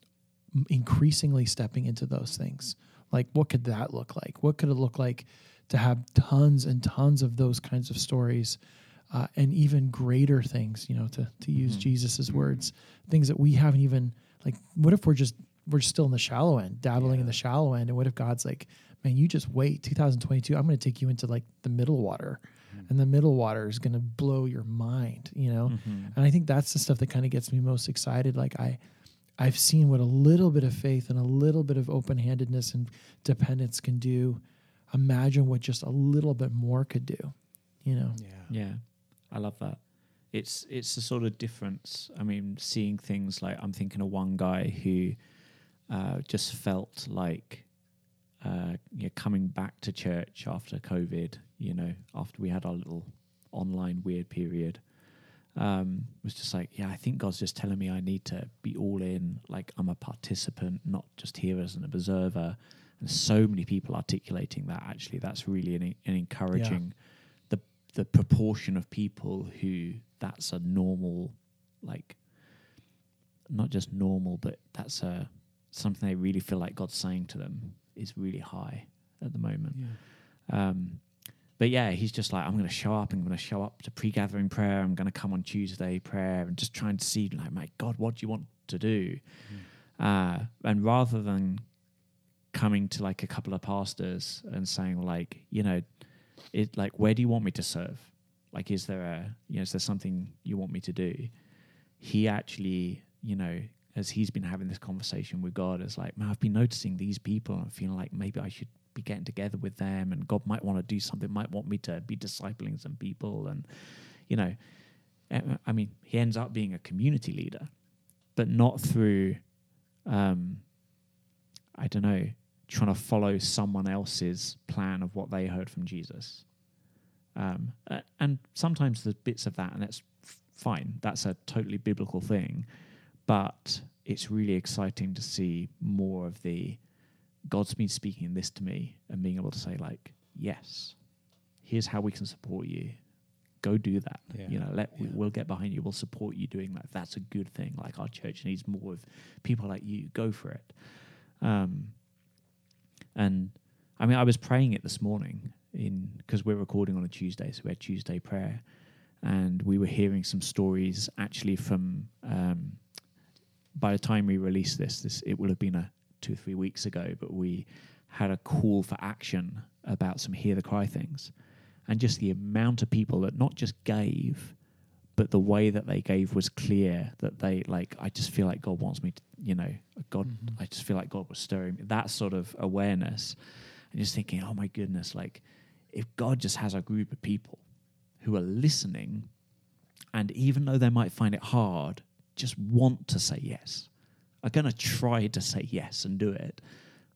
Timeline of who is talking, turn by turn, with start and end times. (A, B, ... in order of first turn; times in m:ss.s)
0:00.5-0:08.6 A
0:09.1-0:28.8 A
0:11.6-0:11.9 B
0:12.3-0:12.7 C
0:17.0-0:17.4 C
0:25.7-0:26.2 B
0:29.4-0:38.2 A
0:38.2-0:38.5 C
0:38.5-0:45.2 B
0:45.9-0:47.7 B
0:48.4-0:54.8 B
0:55.6-1:07.0 B
1:06.5-1:06.8 A
1:07.5-1:12.2 B
1:13.5-1:31.7 B
1:19.7-1:20.0 C
1:32.5-1:35.9 B
1:36.5-1:41.3 B
1:42.0-1:54.6 B
1:55.3-1:57.7 B
1:58.4-1:59.4 B
2:00.1-2:00.7 B
2:01.8-2:06.5 B
2:07.4-2:12.7 B
2:13.3-2:16.8 B
2:17.5-2:21.0 B
2:21.6-2:23.0 B
2:23.6-2:32.0 B
2:24.3-2:25.2 C
2:33.2-2:38.6 B
2:39.2-2:42.9 B
2:43.8-2:51.3 B
2:51.9-2:54.6 B
2:55.2-3:07.6 B
3:08.2-3:09.3 B
3:10.1-3:13.9 B
3:14.4-3:16.6 B